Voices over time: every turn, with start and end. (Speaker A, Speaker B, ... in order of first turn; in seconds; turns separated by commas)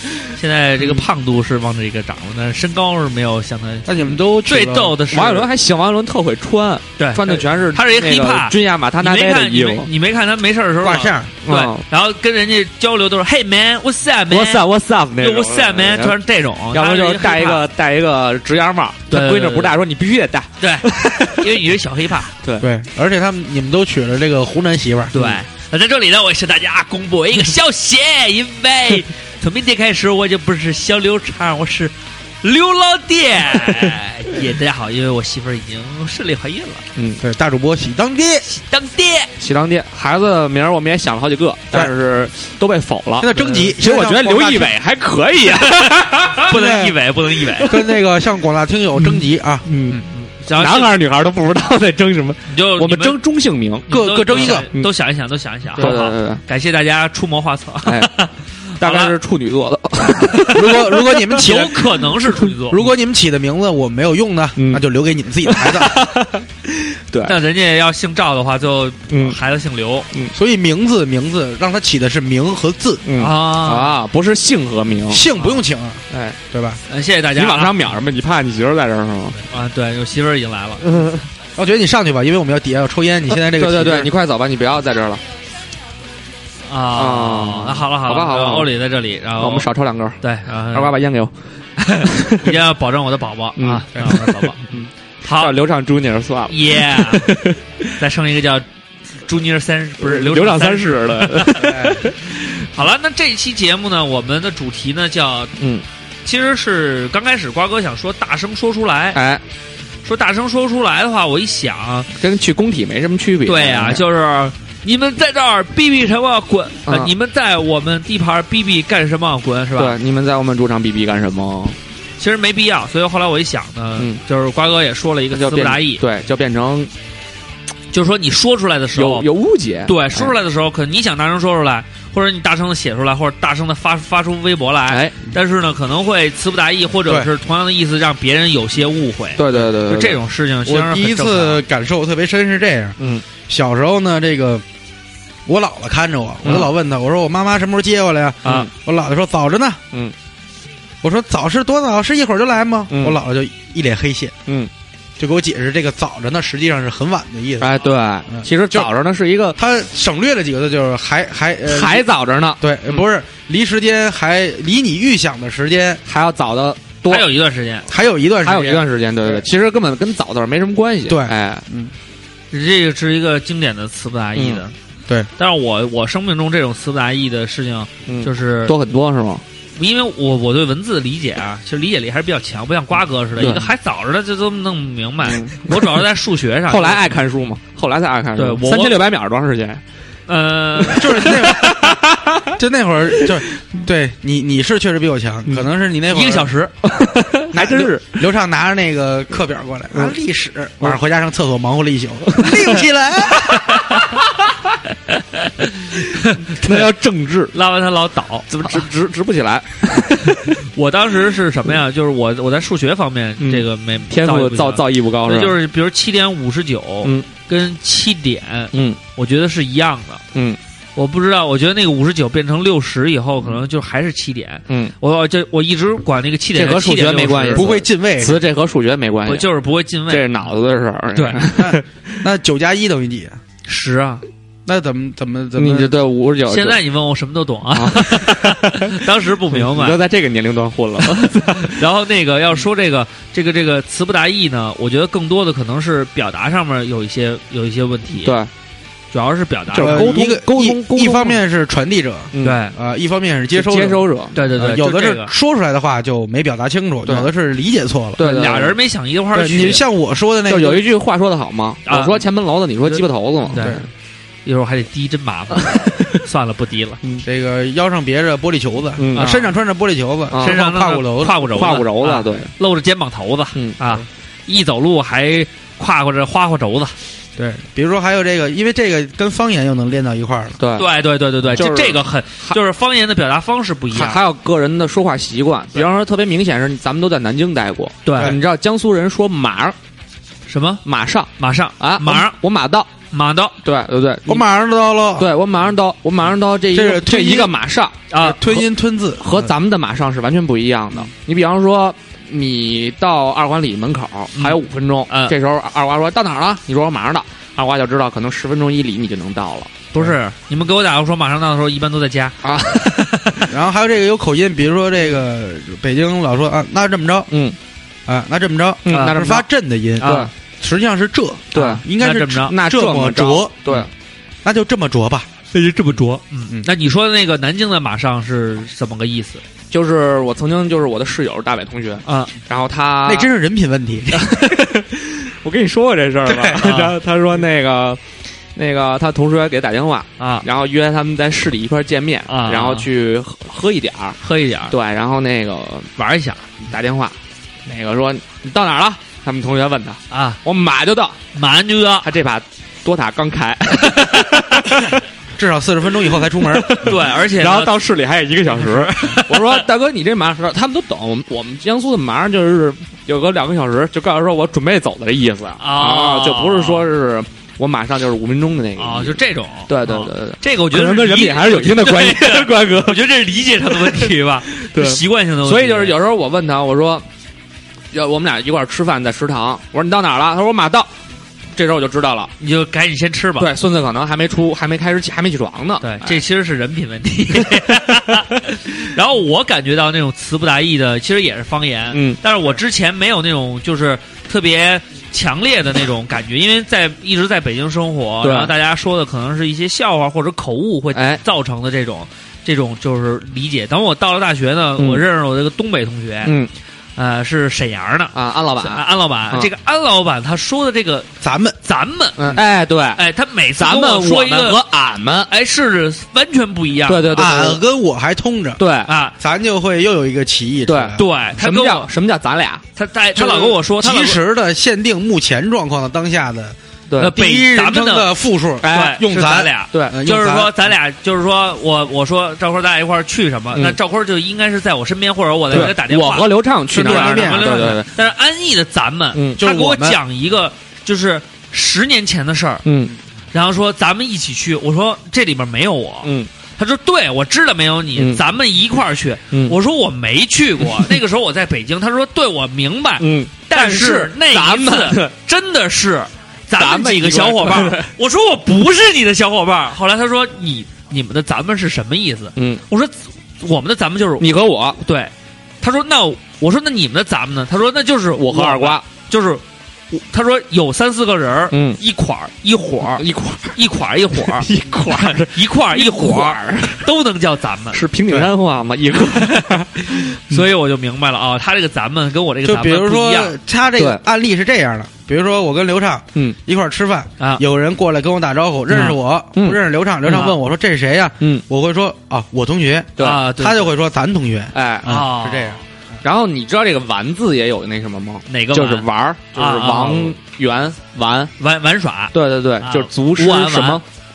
Speaker A: 0.4-3.9, Speaker B: 3.9-5.0, Speaker A: 4.5-5.5, Speaker C: 5.1-9.9, Speaker A: 7.0-14.7, Speaker B: 10.8-11.3, Speaker C: 11.4-11.8, Speaker C: 14.3-16.2, Speaker A: 15.2-17.6, Speaker C: 16.7-21.6, Speaker A: 19.1-19.7, Speaker A: 20.6-22.3, Speaker C: 22.4-22.7, Speaker B: 22.6-25.1, Speaker A: 25.1-36.8, Speaker C: 25.1-25.4, Speaker C: 37.0-37.2, Speaker B: 37.2-38.5, Speaker A: 38.5-39.3, Speaker C: 39.4-46.5, Speaker B: 43.2-44.8, Speaker A: 45.6-47.7, Speaker B: 46.5-47.0, Speaker C: 47.5-47.8, Speaker B: 47.6-50.0, Speaker C: 49.0-50.0, Speaker A: 50.1-50.9, Speaker C: 50.5-54.9, Speaker A: 52.5-53.2, Speaker B: 53.9-54.7, Speaker A: 53.9-59.1, Speaker C: 55.8-56.4, Speaker C: 57.9-58.2, Speaker C: 58.8-61.4, Speaker B: 60.5-62.0, Speaker A: 61.4-62.8, Speaker B: 62.7-66.1, Speaker C: 64.6-64.8, Speaker C: 65.5-67.4, Speaker A: 67.2-70.1, Speaker C: 69.1-69.4, Speaker B: 70.3-73.0, Speaker C: 73.0-75.3, Speaker A: 73.2-74.0, Speaker B: 75.1-76.8, Speaker C: 76.1-76.4, Speaker A: 76.9-78.0, Speaker C: 77.3-79.4, Speaker A: 79.4-81.1, Speaker C: 80.9-81.2, Speaker B: 81.6-84.1, Speaker C: 83.5-85.2, Speaker A: 86.7-89.7, Speaker C: 87.0-88.7, Speaker C: 89.4-91.3, Speaker A: 90.2-91.0, Speaker A: 91.8-94.6, Speaker C: 92.0-92.6, Speaker C: 93.6-97.9, Speaker A: 95.2-95.6, Speaker A: 96.5-97.3, Speaker A: 98.0-98.7, Speaker A: 99.2-105.5, Speaker C: 100.0-102.3, Speaker B: 101.5-102.1, Speaker C: 105.6-105.8, Speaker A: 106.2-109.2, Speaker C: 109.2-109.4, Speaker A: 110.0-112.1, Speaker C: 112.2-114.0, Speaker A: 113.5-120.0, Speaker C: 116.9-117.1, Speaker C: 119.8-121.8, Speaker A: 122.2-126.0, Speaker C: 125.3-126.9, Speaker A: 127.9-129.3, Speaker C: 128.9-130.3, Speaker A: 129.9-141.6, Speaker C: 134.9-135.2, Speaker C: 139.4-140.2, Speaker B: 140.7-144.6, Speaker C: 143.0-143.2, Speaker B: 145.5-149.8, Speaker C: 148.4-148.7, Speaker B: 151.0-154.3, Speaker C: 152.9-153.2, Speaker B: 155.2-157.8, Speaker C: 157.6-159.6, Speaker B: 158.3-158.9, Speaker B: 159.6-162.1, Speaker C: 161.7-163.0, Speaker B: 162.6-166.0, Speaker C: 166.1-167.3, Speaker A: 167.1-167.9, Speaker B: 167.9-169.4, Speaker C: 168.4-171.7, Speaker B: 171.1-171.9, Speaker A: 172.5-174.8, Speaker C: 174.4-174.6, Speaker A: 175.4-178.8, Speaker C: 178.1-179.4, Speaker A: 179.8-187.1, Speaker C: 183.4-183.7, Speaker C: 185.2-186.0, Speaker C: 186.7-189.8, Speaker A: 188.4-189.0, Speaker A: 190.3-191.3, Speaker C: 190.8-192.6, Speaker B: 190.9-192.0, Speaker B: 192.5-196.6, Speaker A: 196.1-196.7, Speaker C: 196.8-198.3, Speaker B: 197.5-204.0, Speaker C: 202.3-202.8, Speaker A: 205.1-206.9, Speaker C: 206.5-207.6, Speaker A: 207.5-208.9, Speaker C: 208.5-210.6, Speaker A: 210.4-220.2, Speaker C: 213.4-215.6, Speaker C: 218.7-219.0, Speaker C: 220.3-220.6, Speaker A: 221.0-227.7, Speaker C: 226.6-229.5, Speaker B: 227.6-228.4, Speaker A: 229.3-230.4, Speaker C: 230.1-232.1, Speaker A: 231.2-231.4, Speaker B: 231.5-233.4, Speaker A: 233.7-234.2, Speaker B: 234.7-236.0, Speaker C: 235.6-236.8, Speaker A: 236.5-240.0, Speaker C: 237.7-241.8, Speaker A: 241.1-248.4, Speaker C: 248.2-248.5, Speaker A: 249.1-250.2, Speaker C: 249.7-251.4, Speaker B: 249.8-258.2, Speaker C: 252.3-252.6, Speaker A: 252.4-252.7, Speaker C: 253.6-254.4, Speaker A: 254.3-255.3, Speaker C: 258.2-258.8, Speaker A: 258.2-259.8, Speaker B: 259.3-260.9, Speaker C: 260.5-263.8, Speaker A: 261.9-262.2, Speaker A: 262.9-263.8, Speaker B: 263.6-263.8, Speaker A: 264.4-267.0, Speaker C: 265.6-266.1, Speaker B: 267.2-271.4, Speaker C: 269.0-269.4, Speaker A: 269.1-269.5, Speaker C: 270.3-270.6, Speaker A: 270.4-276.9, Speaker C: 271.5-272.5, Speaker B: 277.4-280.6, Speaker C: 280.6-280.9, Speaker A: 280.8-284.2, Speaker C: 281.5-282.6, Speaker C: 283.9-289.8, Speaker A: 288.1-288.3, Speaker A: 290.5-290.8, Speaker C: 290.9-292.9, Speaker A: 291.4-292.4, Speaker A: 293.1-293.6, Speaker C: 293.6-294.4, Speaker B: 294.3-295.3, Speaker C: 295.2-298.0, Speaker B: 296.7-297.6, Speaker A: 298.1-298.4, Speaker B: 298.2-299.5, Speaker C: 299.2-309.9, Speaker A: 305.1-305.4, Speaker A: 309.9-313.5, Speaker C: 312.4-313.1, Speaker B: 313.5-317.3, Speaker C: 317.3-317.6, Speaker B: 318.1-323.9, Speaker C: 318.9-319.5, Speaker A: 318.9-319.2, Speaker C: 320.0-320.3, Speaker A: 320.0-320.3, Speaker C: 321.5-321.8, Speaker A: 321.6-322.5, Speaker C: 322.4-323.9, Speaker B: 324.4-325.3, Speaker A: 325.5-329.4, Speaker C: 329.7-333.3, Speaker A: 332.1-332.3, Speaker B: 333.1-334.4, Speaker C: 334.1-338.0, Speaker B: 336.2-336.6, Speaker A: 336.6-337.0, Speaker C: 338.6-345.9, Speaker A: 340.2-340.4, Speaker A: 342.3-342.9, Speaker A: 344.2-344.7, Speaker A: 346.0-346.6, Speaker C: 346.6-351.2, Speaker A: 350.1-350.4, Speaker A: 351.4-352.1, Speaker C: 352.0-355.0, Speaker A: 353.8-354.6, Speaker B: 355.4-356.9, Speaker C: 356.1-377.1, Speaker A: 356.8-357.7, Speaker A: 358.5-359.7, Speaker A: 365.6-366.9, Speaker A: 368.8-376.0, Speaker C: 377.9-380.9, Speaker C: 381.6-382.3, Speaker A: 382.4-383.5, Speaker C: 383.4-386.2, Speaker A: 385.8-406.4, Speaker C: 391.9-392.2, Speaker C: 398.2-398.5, Speaker C: 400.9-401.2, Speaker C: 404.8-405.1, Speaker C: 406.2-406.5, Speaker A: 407.0-411.1, Speaker C: 408.1-409.5, Speaker B: 411.2-411.6, Speaker A: 411.6-412.2, Speaker C: 412.2-413.0, Speaker A: 413.0-414.6, Speaker C: 413.6-415.3, Speaker A: 415.3-417.1, Speaker C: 416.9-417.6, Speaker B: 417.1-418.6, Speaker C: 418.6-418.9, Speaker A: 418.9-419.1, Speaker B: 419.2-421.0, Speaker C: 420.7-422.6, Speaker A: 421.0-421.9, Speaker A: 422.8-424.2, Speaker B: 423.1-430.6, Speaker A: 427.0-428.1, Speaker C: 428.6-429.1, Speaker A: 428.6-442.7, Speaker C: 429.7-430.0, Speaker C: 435.5-437.9, Speaker B: 436.7-437.6, Speaker C: 439.1-439.4, Speaker B: 439.4-440.0, Speaker C: 442.6-442.9, Speaker A: 443.3-464.3, Speaker C: 446.0-446.3, Speaker C: 448.0-448.2, Speaker C: 449.3-449.6, Speaker C: 450.7-450.9, Speaker C: 453.0-455.1, Speaker C: 456.6-457.9, Speaker C: 462.4-462.6, Speaker C: 464.2-464.8, Speaker A: 464.8-473.0, Speaker C: 468.1-468.8, Speaker C: 471.5-471.8, Speaker C: 472.9-473.6, Speaker A: 473.6-477.8, Speaker C: 474.1-476.9, Speaker C: 477.7-480.4, Speaker A: 479.1-483.4, Speaker B: 482.4-495.6, Speaker C: 488.7-490.3, Speaker A: 490.1-490.3, Speaker C: 493.0-493.2, Speaker A: 493.0-493.7, Speaker C: 494.5-495.1, Speaker A: 494.9-495.6, Speaker C: 496.0-501.3, Speaker A: 498.3-500.2, Speaker A: 501.4-503.8, Speaker C: 502.1-503.8